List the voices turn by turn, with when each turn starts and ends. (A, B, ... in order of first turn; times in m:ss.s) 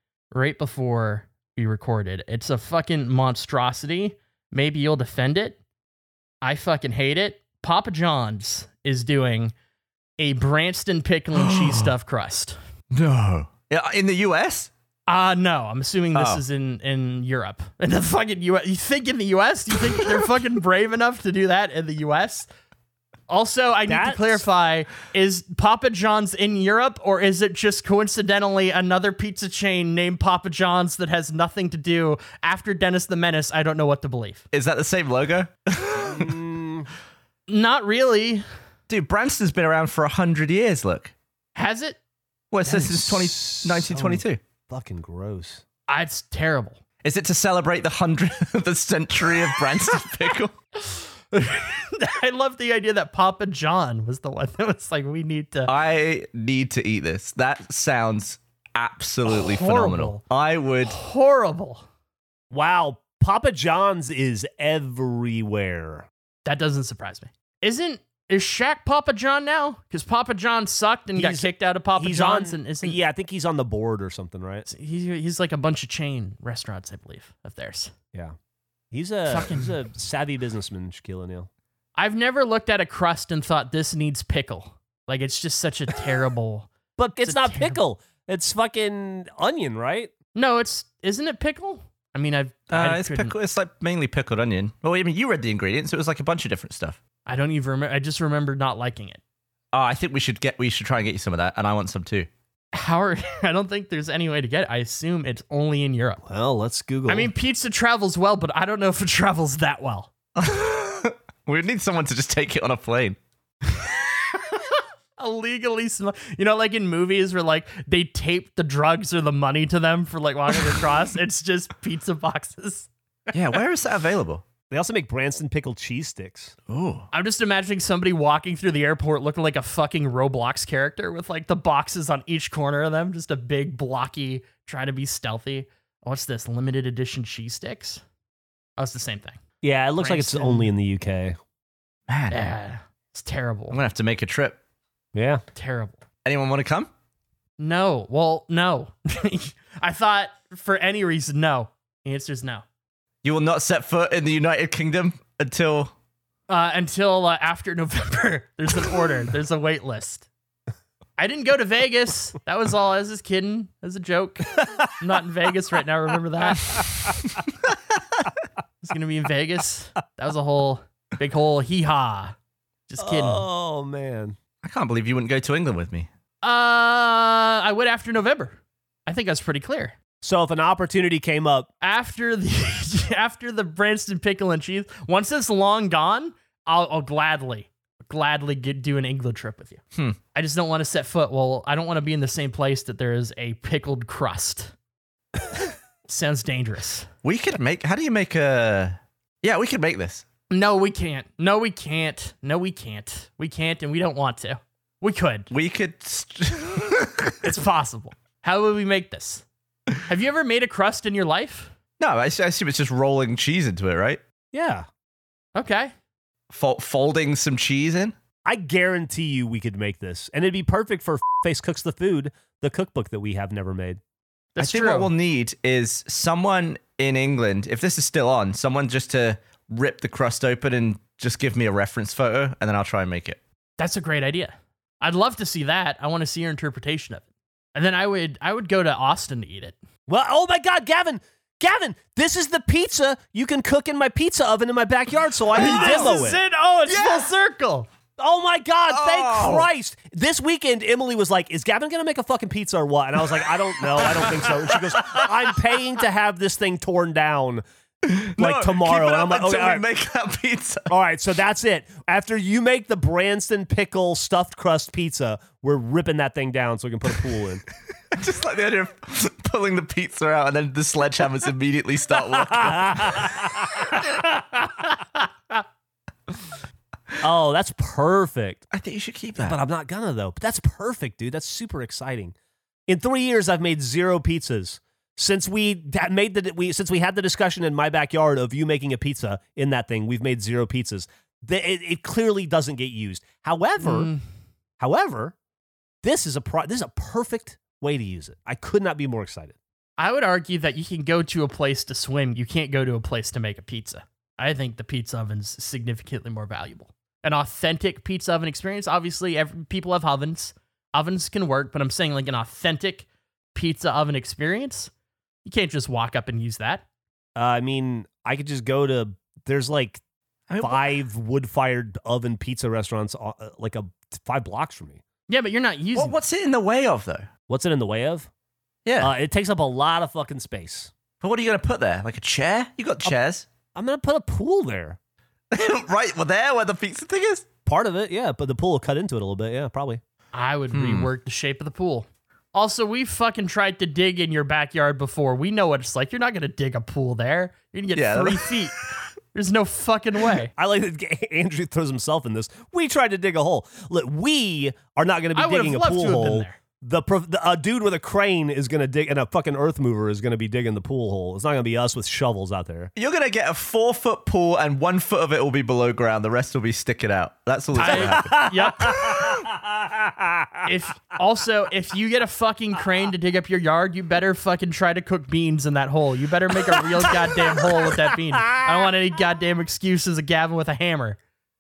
0:00.3-0:05.6 A
0:06.4-0:09.5 A
0:10.2-0:12.6 A
0:11.3-0:11.9 B
0:12.9-0:14.7 B
0:15.1-0:22.5 A
0:16.1-0:16.4 B
0:23.3-0:34.4 A
0:23.9-0:24.4 C
0:34.5-0:36.3 B
0:36.0-0:36.9 C
0:37.5-0:38.4 A
0:38.9-0:41.1 B
0:41.6-0:42.0 A
0:42.5-0:44.4 B
0:42.6-0:45.6 C
0:45.9-0:46.8 A
0:47.0-0:50.5 B
0:50.8-0:55.7 A
0:55.7-1:01.0 B
0:59.3-1:00.2 A
1:00.8-1:01.8 A
1:02.5-1:06.1 C
1:06.4-1:13.0 A
1:11.2-1:14.7 C
1:14.7-1:17.9 A
1:18.9-1:21.5 C
1:19.3-1:19.7 A
1:22.0-1:26.7 A
1:27.0-1:30.1 C
1:27.2-1:27.8 A
1:30.4-1:33.4 A
1:32.7-1:37.0 B
1:37.3-1:39.2 A
1:39.7-1:42.3 B
1:42.7-1:46.2 A
1:46.2-1:47.3 C
1:47.1-1:50.1 A
1:50.4-1:53.2 B
1:55.2-2:02.9 A
2:03.3-2:04.4 B
2:04.7-2:06.6 C
2:06.7-2:07.1 B
2:07.1-2:18.0 A
2:18.8-2:19.4 A
2:19.6-2:21.4 C
2:20.0-2:20.7 A
2:22.1-2:22.4 B
2:22.3-2:23.8 A
2:23.7-2:24.6 B
2:25.1-2:25.4 C
2:25.6-2:26.0 A
2:26.2-2:26.9 B
2:27.6-2:32.6 A
2:33.2-2:35.9 B
2:36.5-2:40.3 A
2:41.2-2:46.8 A
2:48.8-2:52.4 A
2:52.9-2:53.4 A
2:53.0-2:54.4 C
2:54.6-2:56.1 B
2:56.4-3:00.0 A
3:00.2-3:01.7 C
3:01.8-3:09.8 A
3:10.4-3:14.7 A
3:16.1-3:17.1 A
3:17.2-3:20.2 B
3:20.5-3:25.5 A
3:25.5-3:27.4 B
3:27.4-3:29.4 A
3:30.1-3:31.7 A
3:32.0-3:34.2 B
3:34.5-3:34.9 C
3:35.6-3:35.9 A
3:36.5-3:38.2 B
3:38.4-3:44.0 C
3:44.6-3:45.1 A
3:44.6-3:53.4 B
3:53.8-3:59.8 A
4:00.1-4:06.4 C
4:05.6-4:07.9 A
4:05.6-4:06.2 B
4:06.9-4:07.3 B
4:08.2-4:17.6 C
4:08.9-4:09.7 B
4:18.1-4:20.9 B
4:18.4-4:19.8 C
4:20.9-4:27.6 C
4:28.1-4:33.3 B
4:32.4-4:33.7 C
4:37.2-4:38.7 C
4:38.7-4:39.6 B
4:39.4-4:42.3 C
4:42.9-4:54.1 C
4:53.8-4:54.2 A
4:54.8-4:55.4 C
4:56.0-4:59.6 C
5:00.0-5:14.9 A
5:15.4-5:16.8 A
5:17.4-5:20.0 C
5:20.5-5:20.9 B
5:20.6-5:25.0 C
5:25.3-5:26.2 A
5:26.0-5:27.3 B
5:27.5-5:28.3 C
5:28.9-5:29.1 B
5:29.0-5:30.9 C
5:31.2-5:33.5 B
5:33.8-5:35.0 C
5:35.5-5:37.4 B
5:37.7-5:40.0 C
5:40.3-5:48.8 A
5:40.7-5:41.1 B
5:48.0-5:48.5 B
5:49.3-5:50.5 A
5:50.6-6:02.9 C
5:55.4-5:56.6 A
6:03.0-6:09.2 B
6:07.8-6:09.1 A
6:07.8-6:10.7 C
6:10.6-6:21.2 A